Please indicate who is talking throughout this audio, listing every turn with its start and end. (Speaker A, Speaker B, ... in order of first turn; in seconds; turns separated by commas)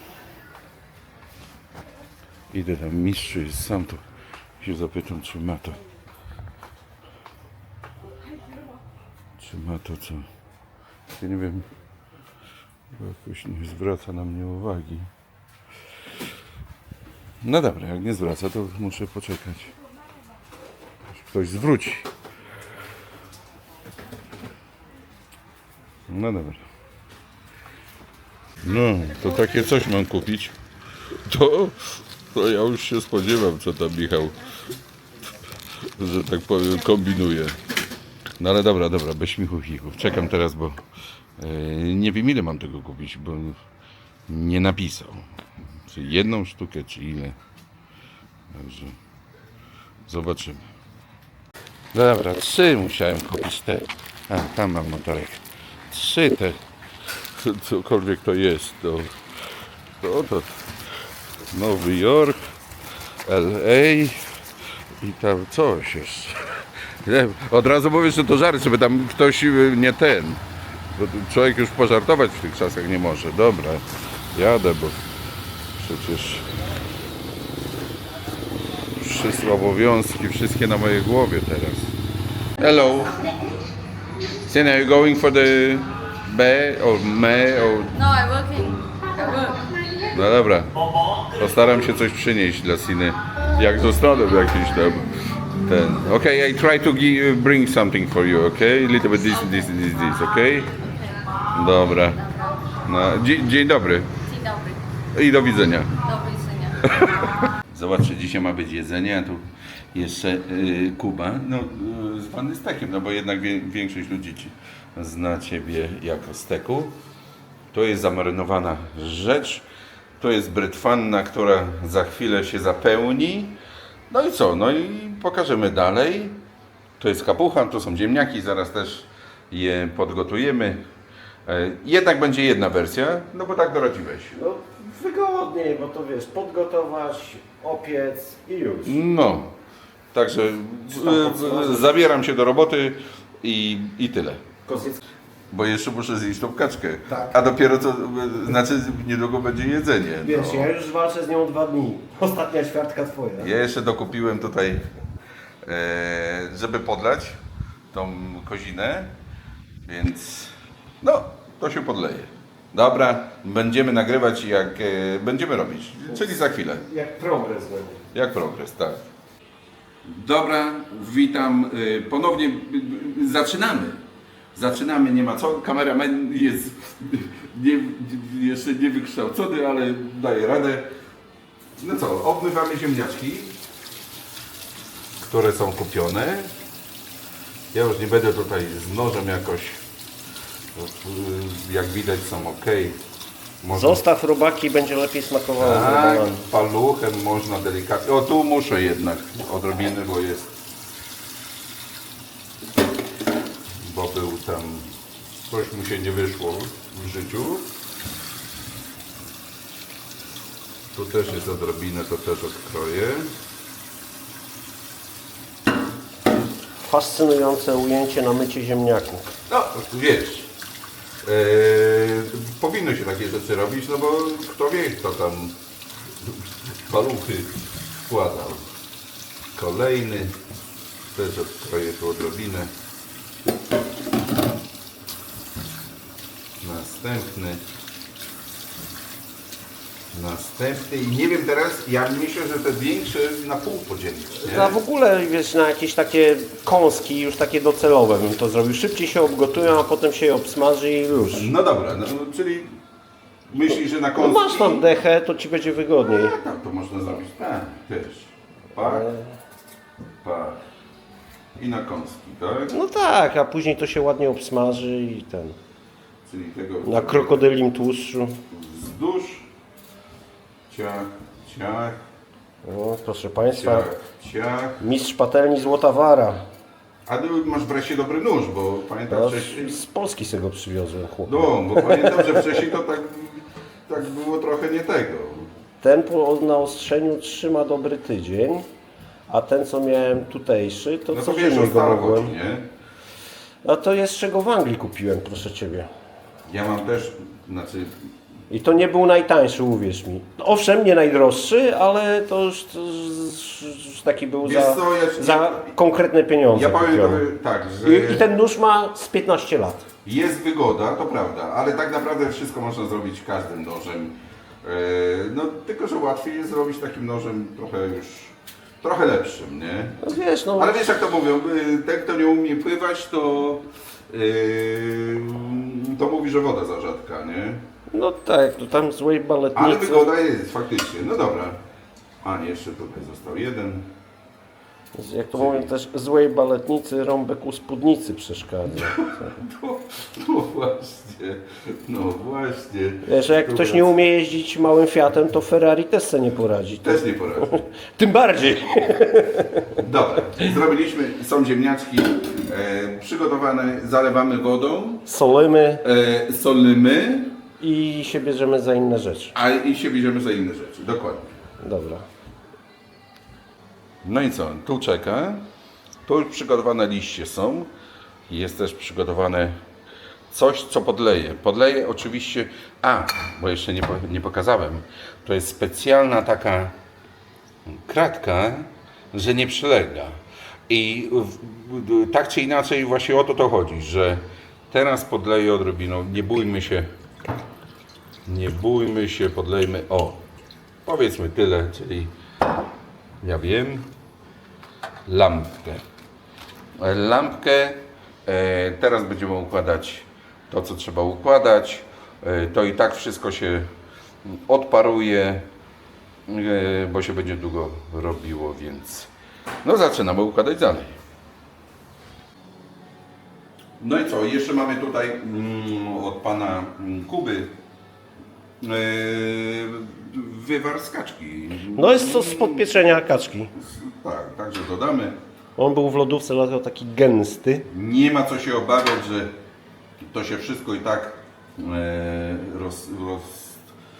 Speaker A: 2.5-4.0, Speaker A: 4.6-5.8, Speaker A: 9.4-10.3, Speaker A: 11.1-11.7, Speaker A: 12.9-15.1, Speaker A: 17.4-19.7, Speaker A: 21.1-22.1, Speaker A: 26.1-26.7, Speaker A: 28.6-30.5, Speaker A: 31.1-34.4, Speaker A: 35.8-37.6, Speaker A: 38.4-40.8, Speaker A: 41.4-43.6, Speaker A: 44.3-45.3, Speaker A: 45.9-47.4, Speaker A: 48.5-49.0, Speaker A: 50.1-50.7, Speaker A: 51.9-56.6, Speaker A: 57.2-59.2, Speaker A: 60.0-60.7, Speaker A: 61.5-62.4, Speaker A: 63.2-64.3, Speaker A: 65.0-66.5, Speaker A: 67.0-70.4, Speaker A: 71.0-75.0, Speaker A: 75.8-76.5, Speaker A: 79.0-81.9, Speaker A: 82.6-83.2, Speaker A: 84.5-87.9, Speaker B: 87.9-89.7, Speaker A: 90.1-90.7, Speaker A: 91.3-100.7, Speaker B: 99.3-100.2, Speaker B: 100.8-101.3, Speaker A: 101.5-102.2, Speaker B: 102.0-102.8, Speaker A: 102.8-104.1, Speaker B: 104.2-104.8, Speaker A: 105.1-106.0, Speaker B: 106.0-106.9, Speaker A: 106.8-117.0, Speaker A: 117.7-119.7, Speaker A: 120.2-123.6, Speaker A: 124.1-126.4, Speaker A: 127.0-130.8, Speaker A: 131.5-134.3, Speaker C: 134.3-139.0, Speaker A: 138.8-139.5, Speaker A: 140.1-144.4, Speaker C: 140.9-141.9, Speaker C: 144.7-145.0, Speaker A: 145.5-150.7, Speaker C: 150.2-153.5, Speaker A: 153.4-154.9, Speaker A: 155.6-157.4, Speaker A: 157.9-159.1, Speaker A: 159.8-166.8, Speaker C: 166.7-168.0, Speaker A: 168.1-169.0, Speaker A: 170.1-174.0, Speaker A: 174.6-180.9, Speaker A: 181.8-183.6, Speaker A: 185.2-186.5, Speaker A: 187.7-189.8, Speaker A: 190.8-193.0, Speaker A: 193.6-194.0, Speaker C: 193.7-196.4, Speaker A: 195.6-200.5, Speaker A: 203.8-204.9, Speaker A: 205.5-207.7, Speaker A: 210.9-213.3, Speaker C: 216.8-219.3, Speaker A: 219.5-220.5, Speaker A: 221.2-225.6, Speaker A: 226.2-228.7, Speaker A: 229.6-230.4, Speaker A: 231.1-232.7, Speaker A: 236.6-237.6, Speaker A: 240.1-244.8, Speaker C: 244.4-251.5, Speaker A: 251.3-252.8, Speaker A: 253.5-254.9, Speaker C: 254.2-256.4, Speaker A: 256.0-259.1, Speaker C: 258.8-259.3, Speaker A: 260.2-260.6, Speaker A: 261.6-262.7, Speaker C: 262.7-265.6, Speaker A: 266.2-267.5, Speaker C: 266.8-268.4, Speaker A: 268.5-269.5, Speaker A: 270.7-272.0, Speaker C: 272.6-273.9, Speaker A: 273.5-274.8, Speaker C: 274.8-276.5, Speaker A: 277.1-279.8, Speaker C: 279.1-282.6, Speaker A: 281.3-285.5, Speaker C: 285.8-288.7, Speaker C: 289.3-292.3, Speaker A: 291.1-292.7, Speaker C: 293.6-295.9, Speaker A: 296.4-298.0, Speaker C: 298.5-307.2, Speaker A: 304.4-305.7, Speaker A: 306.5-308.2, Speaker C: 307.8-309.9, Speaker A: 310.1-320.0, Speaker C: 320.0-320.8, Speaker A: 320.6-327.7, Speaker C: 327.9-330.1, Speaker A: 329.6-331.6, Speaker A: 332.2-333.9, Speaker C: 334.9-339.3, Speaker A: 335.4-335.7, Speaker A: 338.7-343.9, Speaker C: 343.1-349.8, Speaker A: 346.8-347.6, Speaker A: 349.8-355.1, Speaker C: 355.1-355.8, Speaker A: 355.8-357.4, Speaker C: 357.6-359.3, Speaker A: 359.3-361.3, Speaker C: 361.6-362.1, Speaker A: 364.0-365.5, Speaker A: 366.1-367.7, Speaker A: 368.3-369.6, Speaker A: 370.3-376.8, Speaker A: 377.7-386.9, Speaker A: 388.3-390.2, Speaker A: 390.9-392.1, Speaker A: 393.2-393.9, Speaker A: 395.1-395.8, Speaker A: 396.8-403.7, Speaker A: 404.2-405.5, Speaker A: 406.3-409.1, Speaker A: 409.6-411.0, Speaker A: 413.8-417.6, Speaker A: 418.6-423.0, Speaker C: 421.8-423.5, Speaker A: 423.5-425.2, Speaker C: 425.6-427.7, Speaker A: 427.7-429.4, Speaker A: 430.0-433.7